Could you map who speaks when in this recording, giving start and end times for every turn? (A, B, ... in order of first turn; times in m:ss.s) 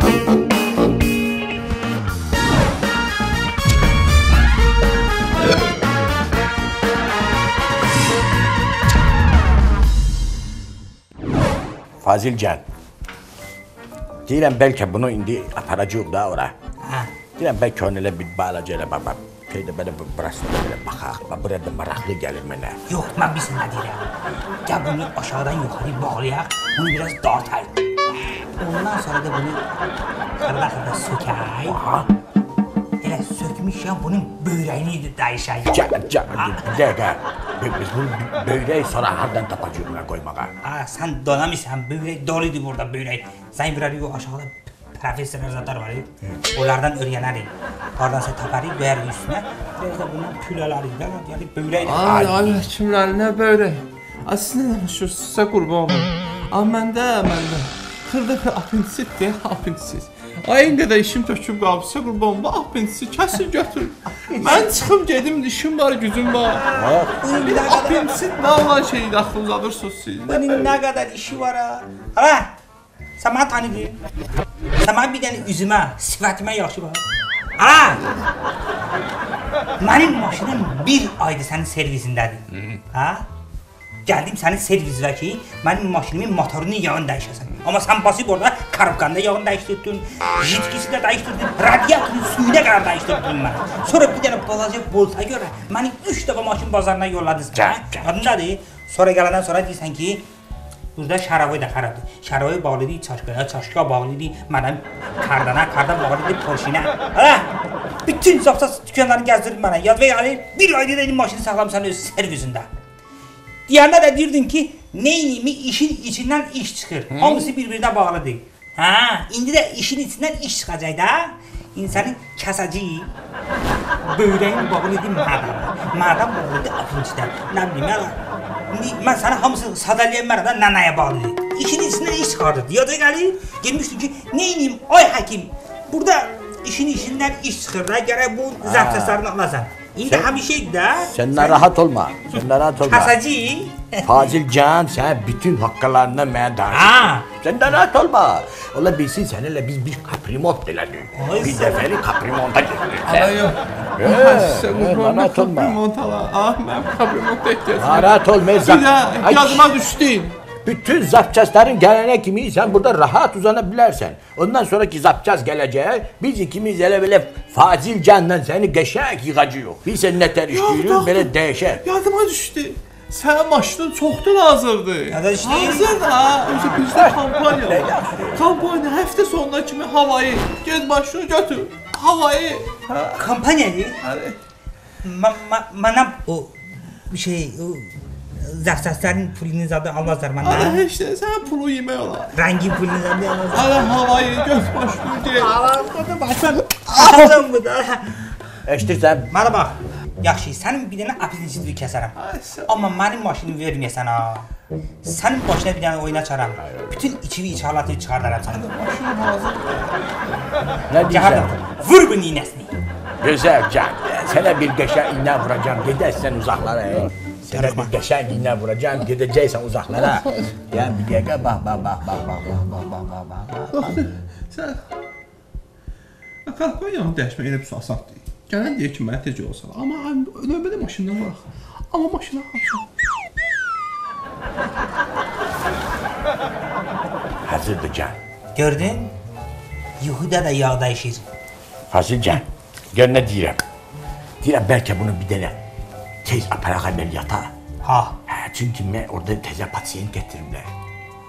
0:12.0-0:12.6 A
0:14.3-0:16.5 A
0:16.8-0:17.1 B
0:17.4-0:22.8 A
0:22.9-0:24.1 B
0:24.7-0:27.8 B
0:28.6-0:29.6 B
0:30.4-0:31.8 B
0:31.7-0:32.1 A
0:33.0-0:36.8 B
0:35.7-0:40.5 A
0:40.6-0:52.6 B
0:51.8-1:06.7 C
1:04.4-1:04.7 B
1:04.4-1:04.7 A
1:06.5-1:08.2 B
1:06.8-1:07.2 A
1:07.2-1:10.7 C
1:10.3-1:12.5 B
1:13.2-1:14.0 B
1:14.8-1:17.0 B
1:17.6-1:18.0 B
1:19.8-1:23.2 B
1:24.1-1:40.2 B
1:37.6-1:38.2 A
1:41.0-1:47.5 B
1:48.0-1:52.7 B
1:53.7-2:03.1 B
1:57.2-1:57.5 A
2:04.1-2:08.2 B
2:08.7-2:21.7 B
2:18.6-2:19.2 A
2:21.1-2:23.1 A
2:22.3-2:24.3 B
2:24.0-2:33.4 A
2:26.7-2:27.3 B
2:31.2-2:31.8 B
2:33.1-2:40.4 C
2:34.0-2:35.8 A
2:37.8-2:39.7 A
2:40.6-2:51.8 A
2:50.5-2:51.3 C
2:51.8-3:03.2 C
2:55.1-2:56.8 B
2:56.9-2:58.5 A
3:03.2-3:04.0 B
3:04.0-3:04.4 C
3:05.0-3:06.6 B
3:07.1-3:10.8 B
3:10.4-3:12.3 C
3:12.3-3:13.8 B
3:13.5-3:15.6 C
3:15.5-3:18.1 B
3:18.7-3:19.3 A
3:19.3-3:24.5 B
3:22.2-3:22.7 C
3:25.0-3:28.7 B
3:26.6-3:27.0 A
3:28.5-3:30.0 C
3:30.9-3:31.5 A
3:31.1-3:32.7 B
3:33.2-3:44.0 A
3:37.5-3:37.9 B
3:43.7-3:44.8 C
3:46.5-3:52.9 C
3:57.4-3:58.2 A
3:58.6-3:59.1 B
4:00.0-4:01.2 B
4:01.9-4:03.6 A
4:04.4-4:05.6 A
4:06.2-4:07.5 A
4:07.8-4:08.2 B
4:08.3-4:10.7 A